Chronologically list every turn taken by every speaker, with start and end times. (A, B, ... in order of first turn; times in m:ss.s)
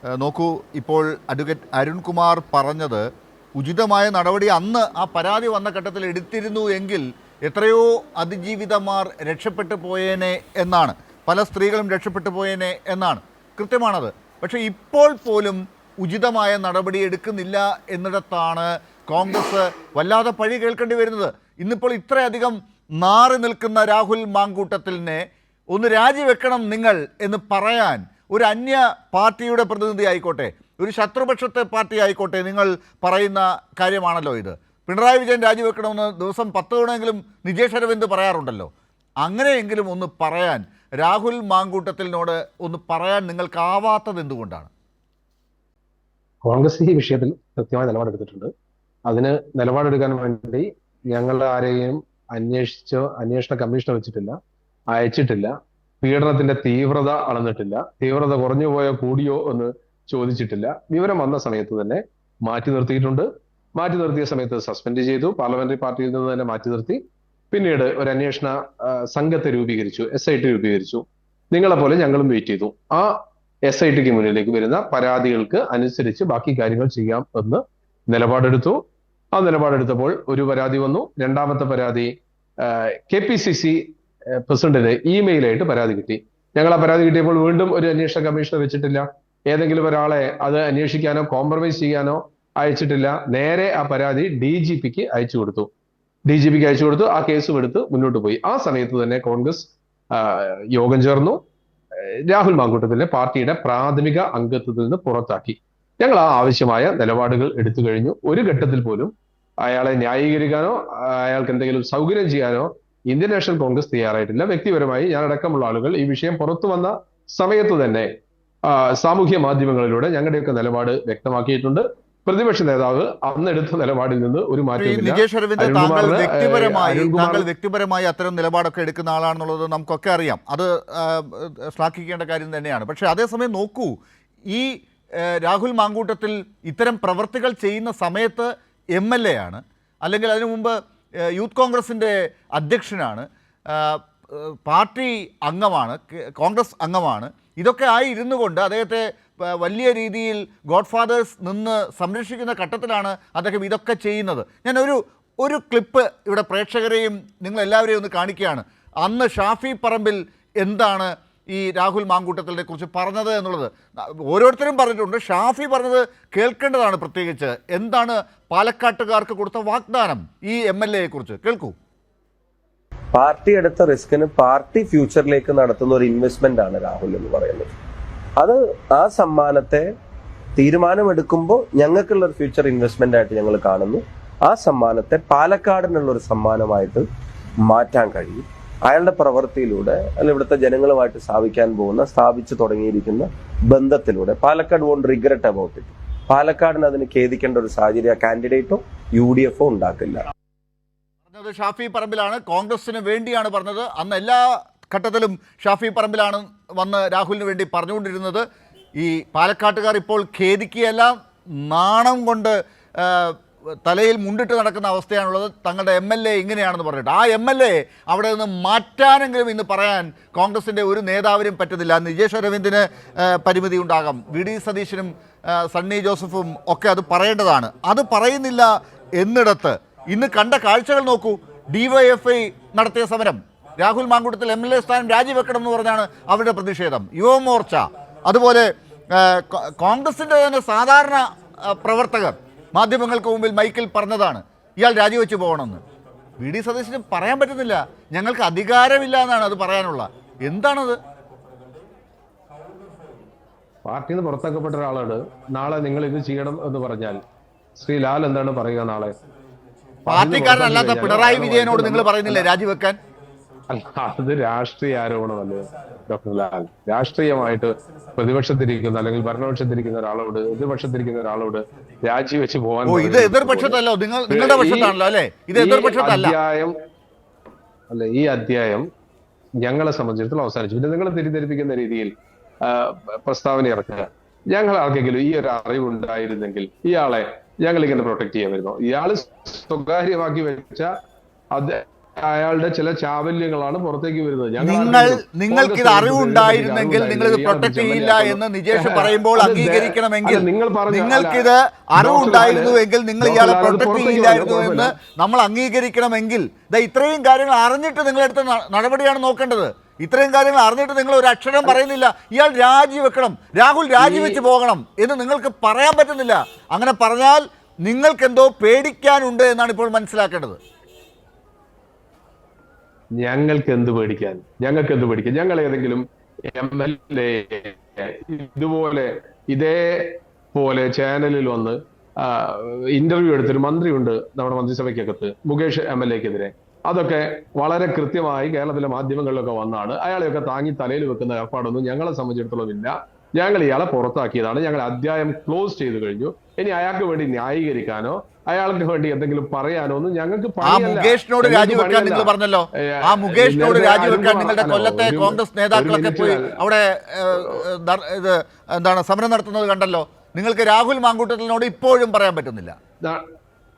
0:00.2-0:03.0 A
0:03.6-0:38.7 A
0:39.2-0:44.7 A
0:46.4-0:48.5 B
0:49.1-0:54.4 B
0:54.9-1:18.8 B
1:19.3-1:35.7 B
1:36.3-1:41.4 B
1:42.0-1:49.1 B
1:49.6-1:58.1 B
1:58.7-2:07.5 B
2:04.8-2:13.9 A
2:15.3-2:20.8 A
2:21.3-2:51.7 A
2:53.2-2:57.7 C
2:58.4-2:59.9 C
3:00.6-3:07.1 C
3:07.6-3:20.3 C
3:21.3-3:28.4 A
3:29.0-4:05.8 A
4:06.4-4:11.0 A
4:13.8-4:17.2 B
4:17.8-4:19.2 B
4:20.1-4:22.5 B
4:20.1-4:23.0 A
4:23.7-4:33.8 B
4:32.9-4:36.4 A
4:34.3-4:35.0 B
4:35.5-4:36.7 B
4:37.9-4:38.9 B
4:39.6-4:50.9 B
4:51.5-5:05.0 B
4:54.6-5:20.6 A
5:14.0-5:14.4 B
5:23.2-5:56.6 B
5:50.6-6:02.8 A
5:57.4-5:57.6 B